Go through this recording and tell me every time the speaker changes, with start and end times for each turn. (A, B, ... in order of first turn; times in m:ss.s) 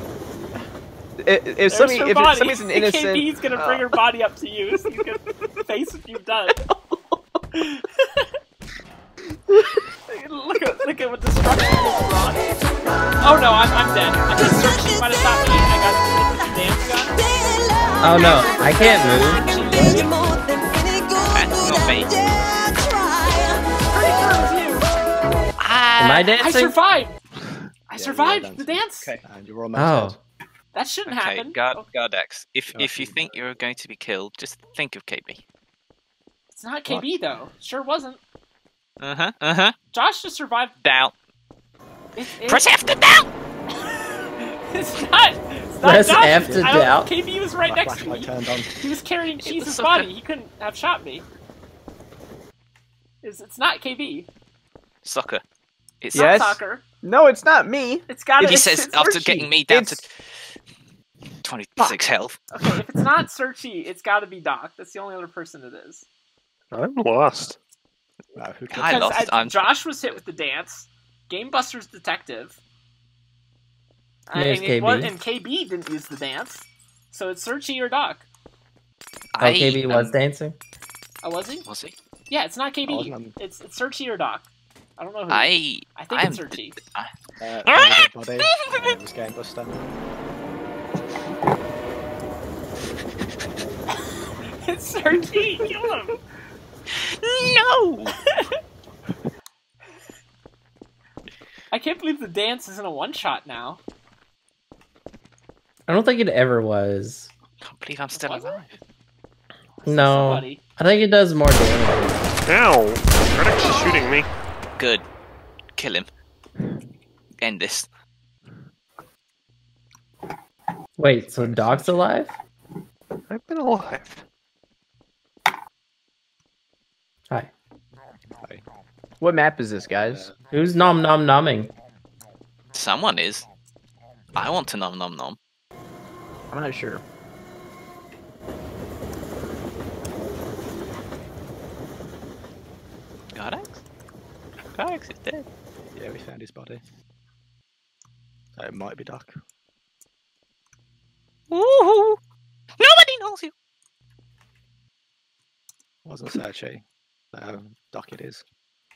0:01.2-0:03.8 A
0:01.7-0:06.6 B
0:07.5-0:08.2 B
0:10.1-0:12.5 B
0:13.2-0:17.6 B
0:18.0-0:19.5 C
0:18.1-0:20.7 B
0:21.3-0:22.8 D
0:23.9-0:25.0 B
0:25.6-0:26.3 D
0:26.0-0:26.8 C
0:26.4-0:27.2 B
0:27.9-0:29.2 B
0:27.9-0:30.2 E
0:29.8-0:30.2 C
0:30.7-0:31.9 B
0:31.1-0:35.4 D
0:32.7-0:33.4 E
0:36.5-0:38.2 B
0:36.9-0:37.4 E
0:39.0-0:39.8 D
0:39.9-0:40.8 B
0:40.8-0:41.1 D
0:42.2-0:42.7 B
0:42.4-0:43.3 D
0:43.7-0:51.2 B
0:45.8-0:47.1 C
0:46.4-0:46.9 E
0:47.6-0:48.9 E
0:49.4-0:50.1 D
0:53.2-0:54.3 B
0:55.0-0:55.4 D
0:56.0-0:56.4 D
0:56.1-0:56.8 B
0:56.1-0:58.4 A
0:58.1-0:59.0 B
0:58.4-1:00.2 D
0:59.0-1:00.0 A
1:01.4-1:02.4 D
1:02.5-1:06.1 B
1:06.7-1:07.6 F
1:08.4-1:09.1 E
1:08.7-1:09.7 D
1:08.8-1:12.6 B
1:14.3-1:18.2 B
1:14.3-1:15.1 C
1:19.3-1:20.2 D
1:19.4-1:20.6 C
1:21.2-1:21.7 B
1:21.7-1:22.0 D
1:22.3-1:26.8 B
1:22.8-1:23.4 E
1:25.3-1:27.1 D
1:27.4-1:29.8 E
1:27.6-1:28.9 D
1:34.6-1:36.1 B
1:37.3-1:37.5 A
1:37.4-1:38.1 D
1:38.1-1:38.5 B
1:41.7-1:43.8 B
1:45.9-1:47.3 C
1:47.6-1:48.8 D
1:48.1-1:48.7 B
1:49.8-1:50.6 B
1:49.9-1:52.2 C
1:52.5-1:54.3 F
1:53.7-1:54.0 B
1:54.8-1:55.0 D
1:55.8-1:56.1 D
1:57.4-1:57.9 D
2:01.0-2:02.4 C
2:01.2-2:02.0 E
2:03.3-2:04.2 F
2:09.2-2:10.3 A
2:10.0-2:10.3 E
2:10.5-2:11.7 C
2:12.7-2:13.5 D
2:14.4-2:15.4 D
2:16.5-2:17.0 A
2:23.3-2:23.8 D
2:24.8-2:25.4 D
2:26.0-2:26.8 E
2:28.6-2:29.4 E
2:31.5-2:32.2 D
2:32.8-2:33.5 D
2:36.0-2:38.4 E